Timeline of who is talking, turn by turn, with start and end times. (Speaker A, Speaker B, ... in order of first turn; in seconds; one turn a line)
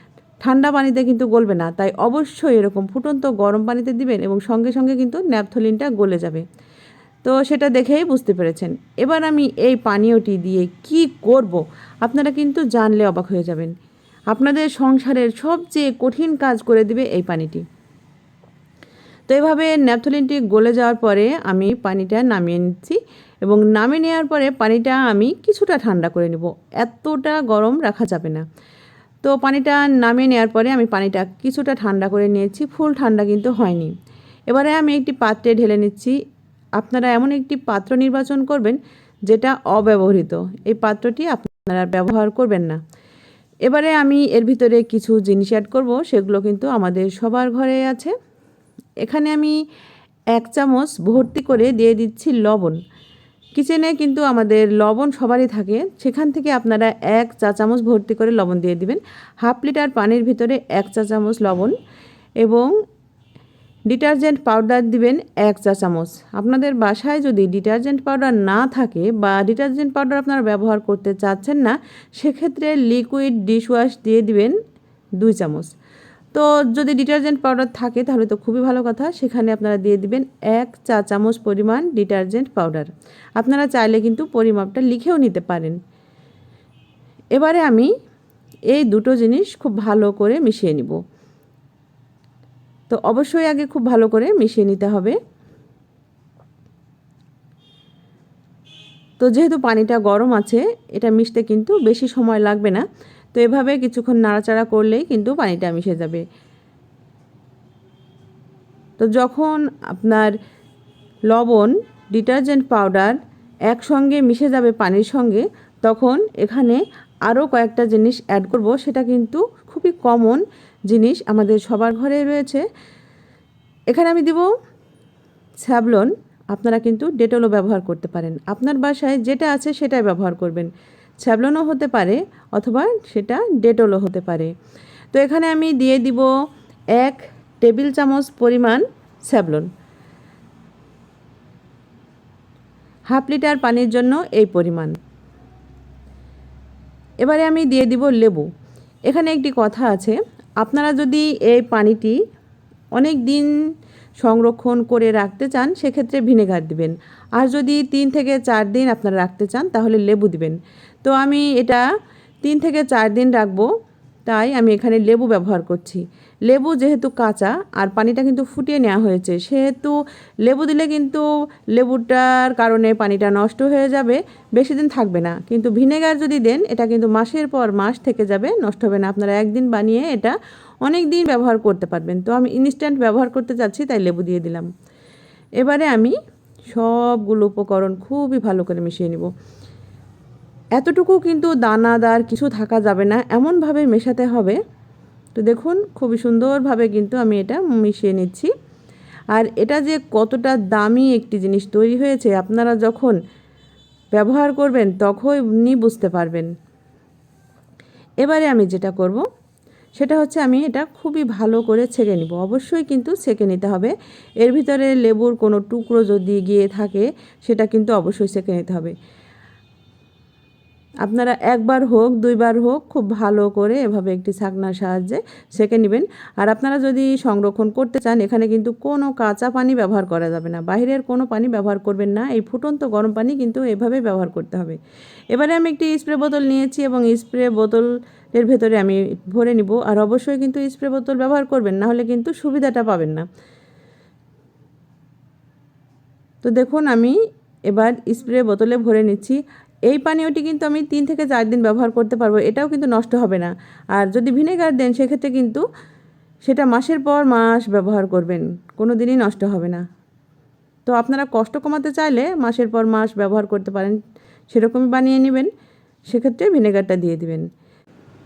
Speaker A: 0.4-6.4
Speaker A: 7.2-13.7
Speaker A: 14.3-17.6
Speaker A: 19.3-28.4
Speaker A: 29.2-33.9
Speaker A: 34.5-36.1
Speaker A: 36.8-42.8
Speaker A: 43.7-48.1
Speaker A: 49.0-49.5
Speaker A: 50.4-52.8
Speaker A: 53.5-61.7
Speaker A: 62.4-62.7
Speaker A: 63.9-74.5
Speaker A: 75.2-75.7
Speaker A: 76.3-85.8
Speaker A: 87.3-87.9
Speaker A: 88.7-91.0
Speaker A: 92.9-95.2
Speaker A: 99.2-106.2
Speaker A: 109.0-110.3
Speaker A: 111.3-113.2
Speaker A: 113.7-122.6
Speaker A: 123.9-124.5
Speaker A: 125.7-130.7
Speaker A: 131.2-134.5
Speaker A: 135.1-136.3
Speaker A: 137.0-139.7
Speaker A: 143.1-144.9
Speaker A: 147.2-148.5
Speaker A: 149.1-152.2
Speaker A: 153.0-153.5
Speaker A: 154.2-161.8
Speaker A: 162.4-163.7
Speaker A: 164.3-184.7
Speaker A: 185.6-186.2
Speaker A: 186.7-189.3
Speaker A: 190.8-194.6
Speaker A: 195.4-198.5
Speaker A: 199.3-203.2
Speaker A: 204.1-206.5
Speaker A: 208.2-209.2
Speaker A: 210.0-218.9
Speaker A: 221.1-234.8
Speaker A: 235.3-243.2
Speaker A: 246.4-247.2
Speaker A: 247.7-249.4
Speaker A: 249.9-255.6
Speaker A: 256.4-259.8
Speaker A: 260.9-264.0
Speaker A: 264.5-265.5
Speaker A: 266.1-267.5